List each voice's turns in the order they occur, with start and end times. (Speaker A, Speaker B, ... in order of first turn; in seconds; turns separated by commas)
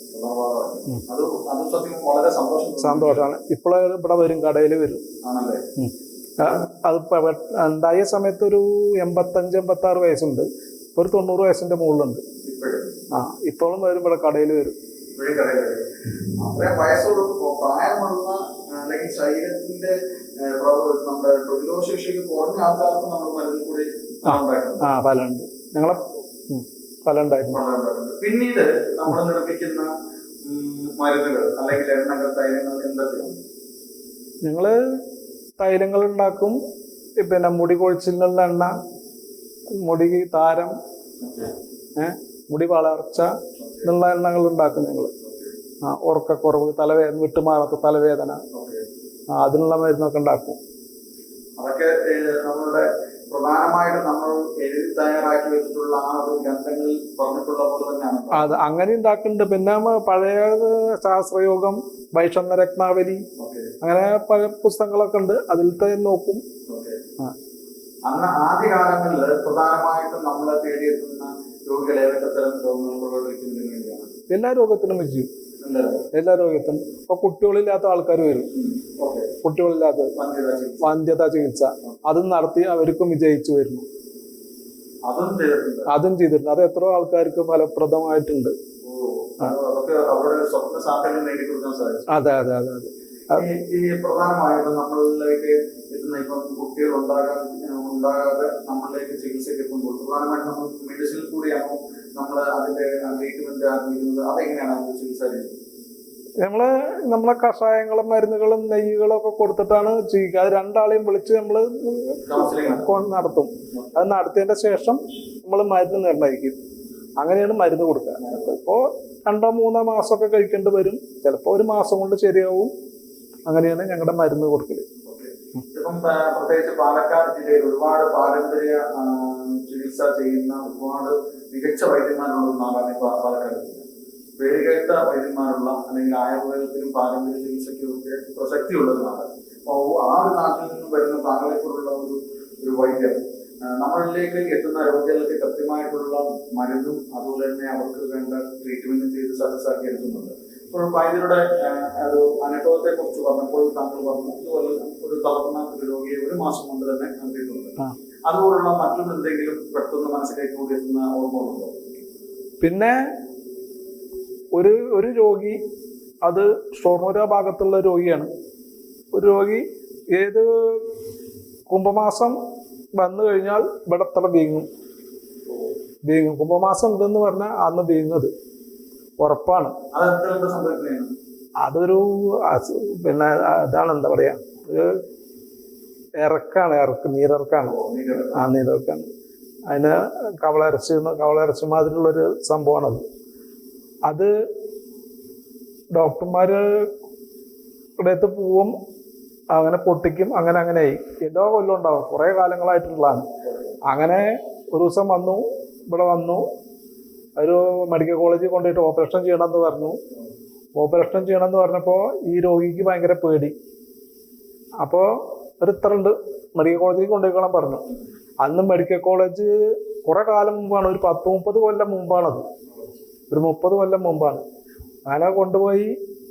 Speaker A: 0.1-3.2, Speaker B: 2.8-5.0, Speaker A: 5.2-5.6, Speaker B: 5.8-12.2, Speaker A: 12.4-12.9, Speaker B: 13.1-14.8, Speaker A: 15.2-15.8, Speaker A: 16.4-24.9, Speaker B: 24.3-27.6, Speaker A: 27.5-29.9, Speaker A: 30.5-33.4, Speaker B: 34.4-34.8, Speaker B: 35.6-36.6, Speaker B: 37.2-38.7, Speaker B: 39.8-40.7, Speaker A: 41.2-41.5, Speaker B: 42.0-43.3, Speaker A: 43.6-43.9, Speaker B: 43.8-45.1, Speaker A: 45.2-45.5, Speaker B: 45.8-48.4, Speaker A: 48.5-48.8, Speaker B: 49.3-50.6, Speaker A: 51.6-58.6, Speaker B: 58.3-63.2, Speaker A: 63.4-63.7, Speaker B: 63.8-66.4, Speaker A: 66.7-67.0, Speaker A: 68.1-74.1, Speaker B: 74.3-75.3, Speaker A: 75.6-76.1, Speaker B: 76.1-78.5, Speaker A: 78.6-79.3, Speaker B: 79.4-80.1, Speaker A: 80.2-80.8, Speaker B: 80.8-83.8, Speaker A: 85.1-85.9, Speaker B: 85.9-88.5, Speaker A: 88.8-92.0, Speaker B: 92.1-93.4, Speaker A: 93.3-105.6, Speaker B: 106.4-116.6, Speaker A: 112.2-112.8, Speaker B: 117.2-122.7, Speaker B: 123.5-124.9, Speaker A: 125.1-133.8, Speaker A: 134.4-157.8, Speaker A: 158.3-161.8, Speaker B: 162.6-162.9, Speaker B: 164.6-165.6, Speaker B: 166.2-168.3, Speaker B: 169.1-170.8, Speaker B: 171.7-172.4, Speaker B: 173.0-174.7, Speaker B: 176.1-178.3, Speaker B: 179.2-179.8, Speaker A: 179.9-181.1, Speaker B: 181.6-185.0, Speaker B: 186.2-187.8, Speaker A: 187.6-188.4, Speaker B: 188.3-189.1, Speaker B: 189.7-193.0, Speaker B: 195.9-196.9, Speaker B: 198.0-198.7, Speaker B: 199.5-203.3, Speaker B: 203.9-206.4, Speaker B: 207.4-210.0, Speaker B: 210.8-213.5, Speaker B: 214.8-217.8, Speaker B: 218.4-222.5, Speaker B: 223.3-224.4, Speaker B: 225.1-225.9